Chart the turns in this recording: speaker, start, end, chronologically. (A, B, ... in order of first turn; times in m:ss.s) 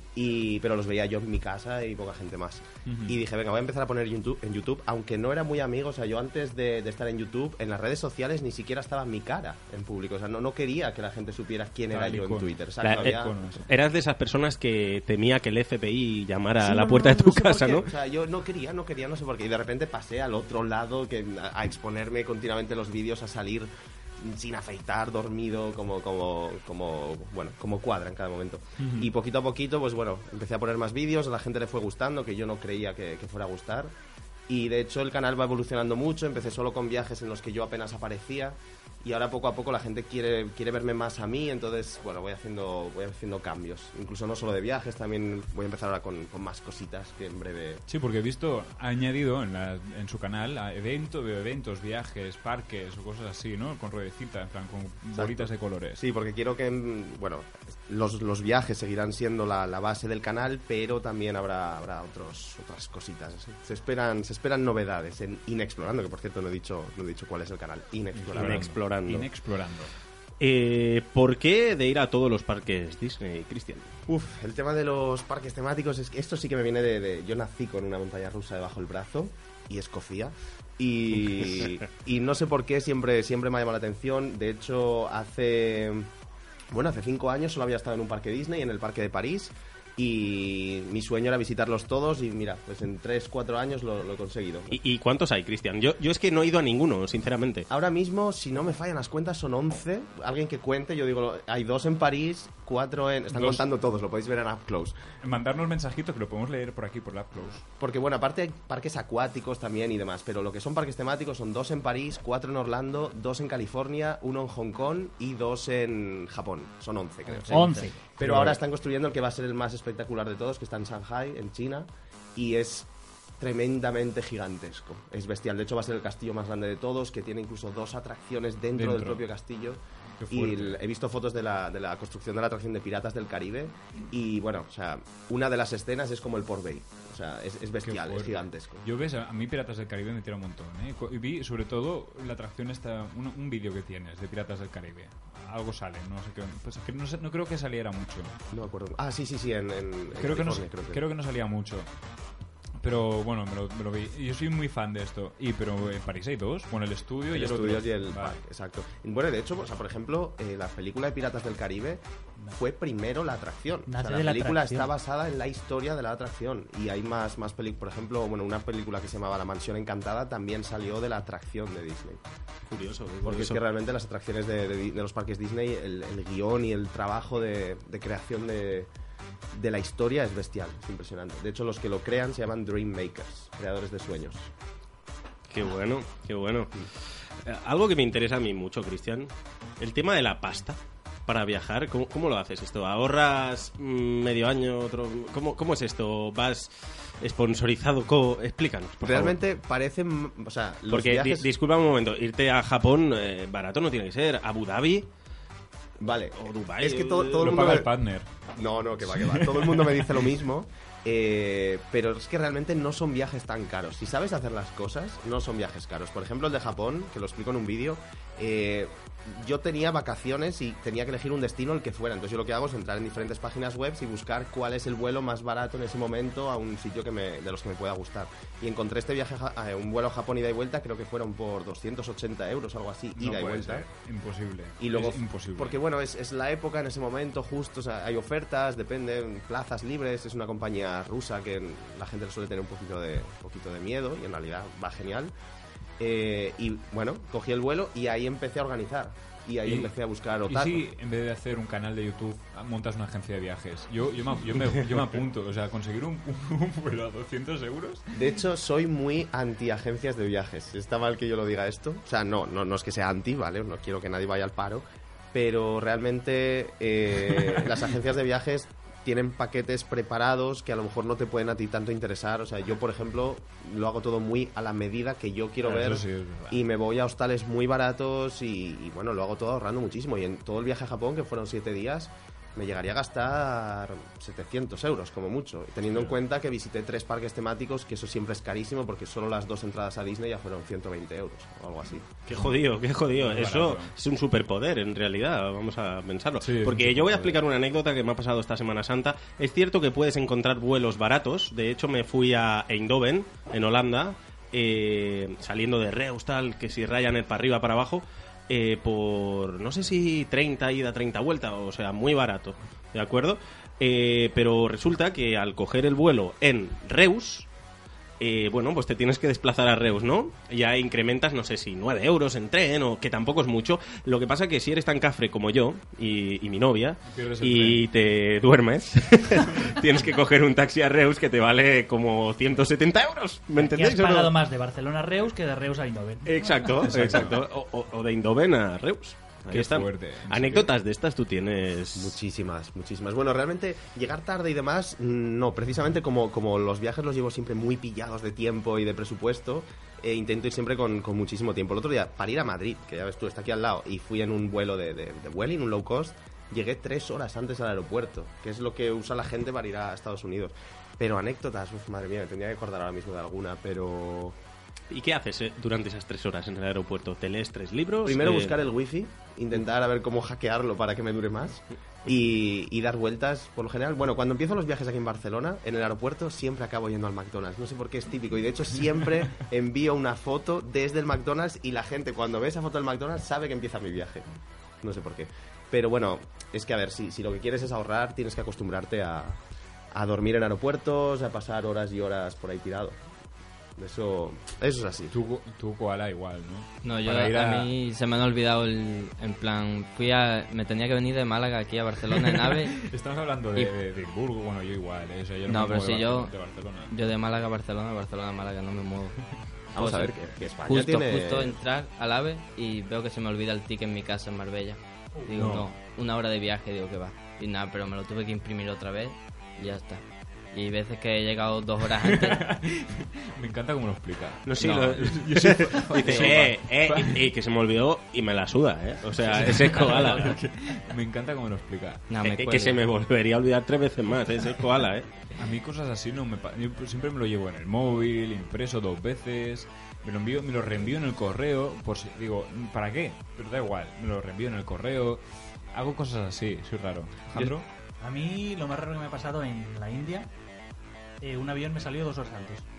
0:00.2-0:13.4 A
0:02.9-0:03.2 B
0:11.9-0:13.7 B
0:12.8-0:17.9 C
0:16.6-0:33.9 A
0:28.8-0:29.1 B
0:34.5-0:47.8 A
0:47.9-0:56.0 B
0:55.2-1:08.7 A
1:08.1-1:09.9 B
1:08.4-1:09.3 C
1:10.4-1:13.9 C
1:14.1-1:26.1 A
1:26.7-1:34.8 A
1:34.7-1:37.7 C
1:37.7-1:45.0 A
1:43.3-1:43.6 B
1:45.2-1:47.6 B
1:47.8-2:02.9 A
1:57.5-1:58.0 D
1:58.2-1:58.6 B
2:03.4-2:18.8 A
2:08.7-2:09.2 B
2:10.2-2:10.8 B
2:17.8-2:28.4 B
2:28.5-2:31.0 A
2:30.2-2:31.9 B
2:32.8-2:38.4 B
2:37.3-2:52.2 A
2:43.9-2:44.9 D
2:52.7-2:53.6 C
2:53.2-2:58.9 A
2:59.5-3:04.5 A
3:05.5-3:06.9 C
3:07.4-3:19.4 C
3:19.0-3:21.5 A
3:20.9-3:25.1 C
3:26.0-3:27.9 A
3:26.4-3:27.8 C
3:27.4-3:28.3 B
3:28.6-3:53.9 A
3:29.0-3:30.2 B
3:53.2-3:55.8 B
3:54.8-4:05.3 A
4:06.0-4:10.8 A
4:09.6-4:09.9 B
4:10.5-4:18.1 B
4:18.1-4:52.1 A
4:35.6-4:36.6 B
4:45.9-4:46.2 B
4:52.3-5:17.5 C
4:53.2-4:53.9 B
4:56.4-4:57.4 B
5:18.2-5:34.4 C
5:27.0-5:27.9 B
5:33.6-5:37.3 D
5:36.3-5:42.2 C
5:36.8-5:37.4 B
5:39.5-5:40.7 B
5:42.0-6:04.4 A
6:04.9-6:08.6 C
6:08.0-6:24.2 A
6:24.8-6:29.4 A
6:29.9-6:33.0 A
6:33.8-6:35.1 A
6:35.1-6:37.7 B
6:36.8-6:42.8 E
6:42.1-6:47.0 B
6:45.5-7:02.4 E
6:49.8-6:51.6 A
7:02.0-7:07.2 B
7:04.5-7:10.4 C
7:04.6-7:05.0 E
7:05.9-7:06.4 E
7:09.2-7:12.1 B
7:12.1-7:12.8 E
7:12.2-7:15.1 C
7:15.4-7:27.6 B
7:27.4-7:30.3 D
7:31.2-7:32.6 D